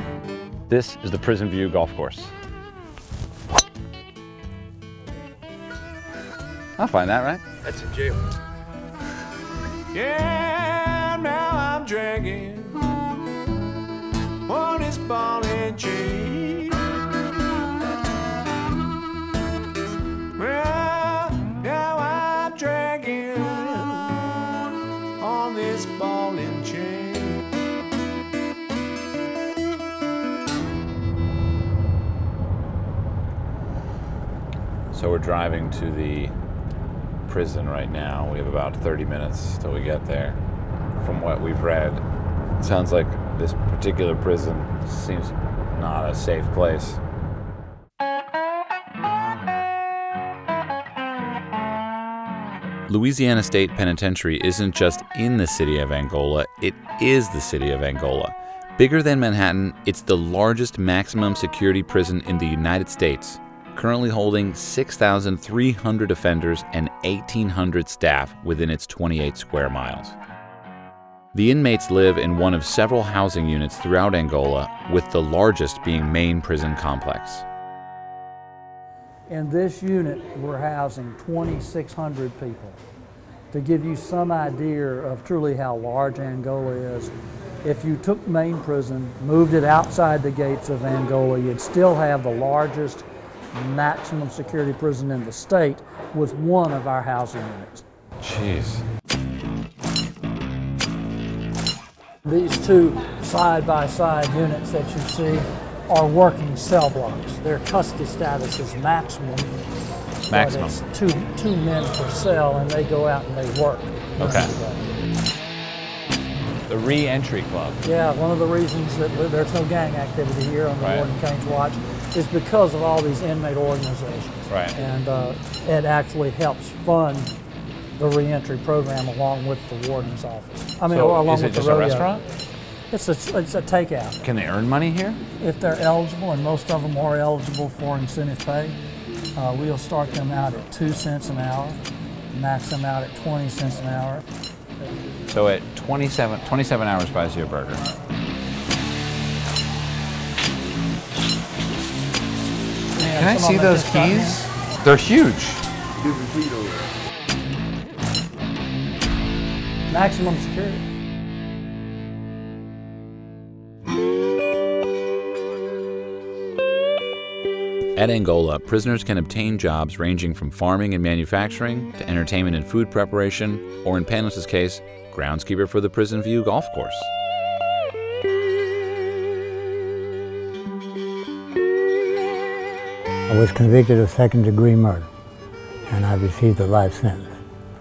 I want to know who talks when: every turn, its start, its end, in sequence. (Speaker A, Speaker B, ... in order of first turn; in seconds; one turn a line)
Speaker A: 0.7-2.3
Speaker A: 6.8-7.4
Speaker B: 7.7-8.2
Speaker C: 9.9-12.7
Speaker C: 14.5-16.5
Speaker C: 20.4-23.4
Speaker B: 20.4-20.9
Speaker B: 21.4-23.8
Speaker C: 25.2-27.3
Speaker B: 25.2-27.0
Speaker A: 34.9-36.3
Speaker A: 37.3-40.4
Speaker A: 41.0-42.0
Speaker A: 42.6-47.0
Speaker A: 52.9-70.2
Speaker A: 71.3-77.4
Speaker D: 79.3-82.8
Speaker D: 83.5-97.8
Speaker A: 98.2-98.8
Speaker D: 102.2-109.5
Speaker D: 110.3-114.8
Speaker A: 110.3-110.8
Speaker A: 114.2-114.5
Speaker A: 116.7-117.8
Speaker D: 117.8-127.3
Speaker A: 120.8-121.1
Speaker A: 124.5-124.7
Speaker D: 127.9-132.1
Speaker A: 130.9-132.2
Speaker D: 132.9-134.2
Speaker A: 134.2-135.2
Speaker D: 135.4-138.8
Speaker D: 139.3-144.2
Speaker A: 145.3-147.8
Speaker D: 152.9-154.4
Speaker A: 153.1-155.7
Speaker D: 159.9-160.8
Speaker A: 167.9-177.1
Speaker E: 183.3-185.1
Speaker E: 185.9-187.4